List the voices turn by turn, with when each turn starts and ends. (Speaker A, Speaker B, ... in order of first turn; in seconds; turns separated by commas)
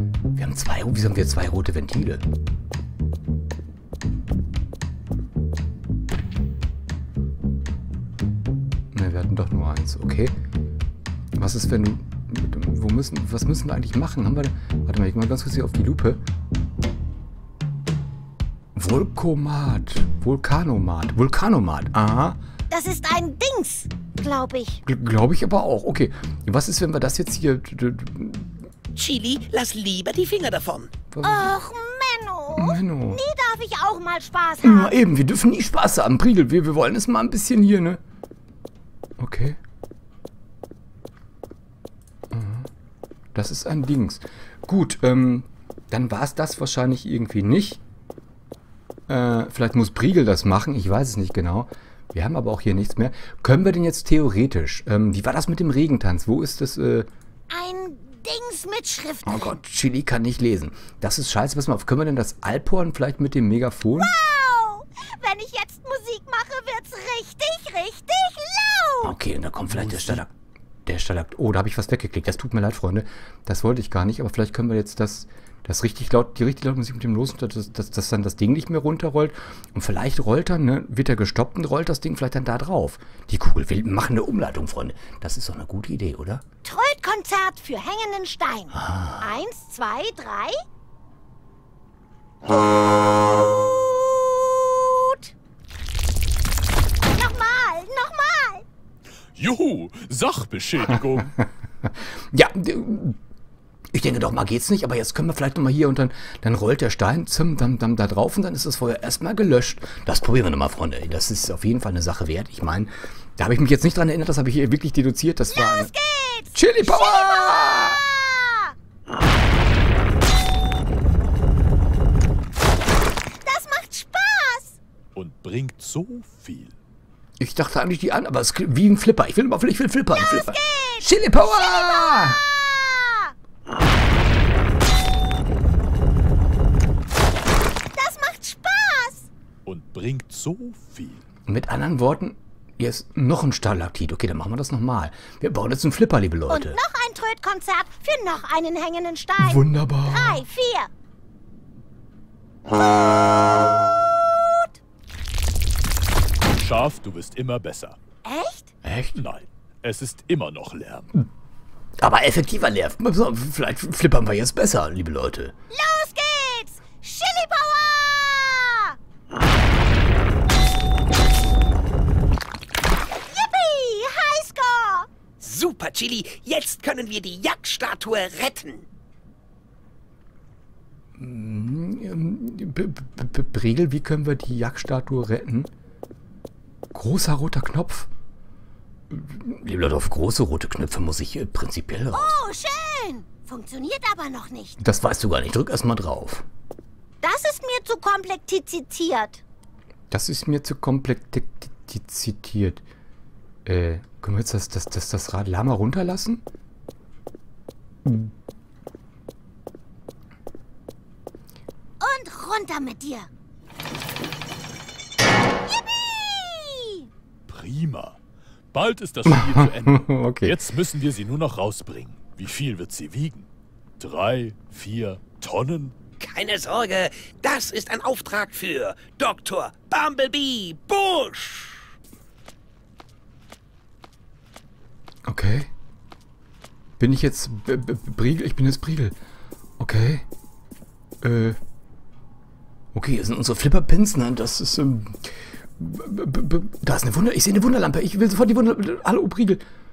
Speaker A: 0.3-2.3, Speaker A: 8.9-10.3, Speaker A: 11.3-16.2, Speaker A: 18.8-22.4, Speaker B: 22.7-24.8, Speaker A: 24.9-28.6, Speaker C: 28.9-30.9, Speaker A: 31.1-31.5, Speaker B: 31.2-35.0, Speaker A: 32.5-33.2, Speaker A: 34.6-38.0, Speaker A: 39.2-39.6, Speaker A: 42.3-42.7, Speaker A: 43.4-47.8, Speaker A: 49.1-57.1, Speaker B: 57.5-59.5, Speaker A: 59.3-64.2, Speaker B: 64.0-69.2, Speaker A: 69.0-70.3, Speaker A: 70.9-86.4, Speaker B: 86.6-90.6, Speaker A: 88.8-89.3, Speaker B: 92.5-95.3, Speaker B: 97.1-98.7, Speaker D: 99.3-101.3, Speaker A: 102.3-103.2, Speaker A: 103.9-115.9, Speaker B: 115.5-118.8, Speaker A: 116.5-118.0, Speaker B: 123.3-124.8, Speaker D: 125.2-126.8, Speaker A: 127.4-132.4, Speaker B: 130.1-133.3, Speaker B: 137.9-139.3, Speaker D: 139.7-141.2, Speaker A: 141.5-146.8, Speaker B: 146.5-150.9, Speaker A: 149.4-150.4, Speaker B: 153.0-153.3, Speaker B: 154.1-154.8, Speaker D: 156.5-158.0, Speaker B: 158.2-158.7, Speaker A: 158.8-159.2, Speaker D: 159.2-161.1, Speaker A: 162.0-165.6, Speaker B: 165.7-169.0, Speaker B: 173.1-175.1, Speaker C: 175.4-178.9, Speaker A: 181.2-185.7, Speaker A: 186.9-188.1, Speaker A: 189.1-192.4, Speaker B: 192.1-194.8, Speaker A: 194.8-196.5, Speaker B: 197.2-199.4, Speaker A: 200.1-202.8, Speaker A: 203.7-206.4, Speaker A: 208.1-208.3, Speaker B: 212.0-213.3, Speaker B: 215.9-217.1, Speaker D: 217.5-218.2, Speaker D: 218.7-223.5, Speaker A: 219.3-220.6, Speaker D: 224.0-225.9, Speaker C: 226.2-231.9, Speaker A: 235.3-235.7, Speaker A: 237.0-239.2, Speaker A: 239.8-240.3, Speaker A: 241.2-241.6, Speaker A: 242.9-249.6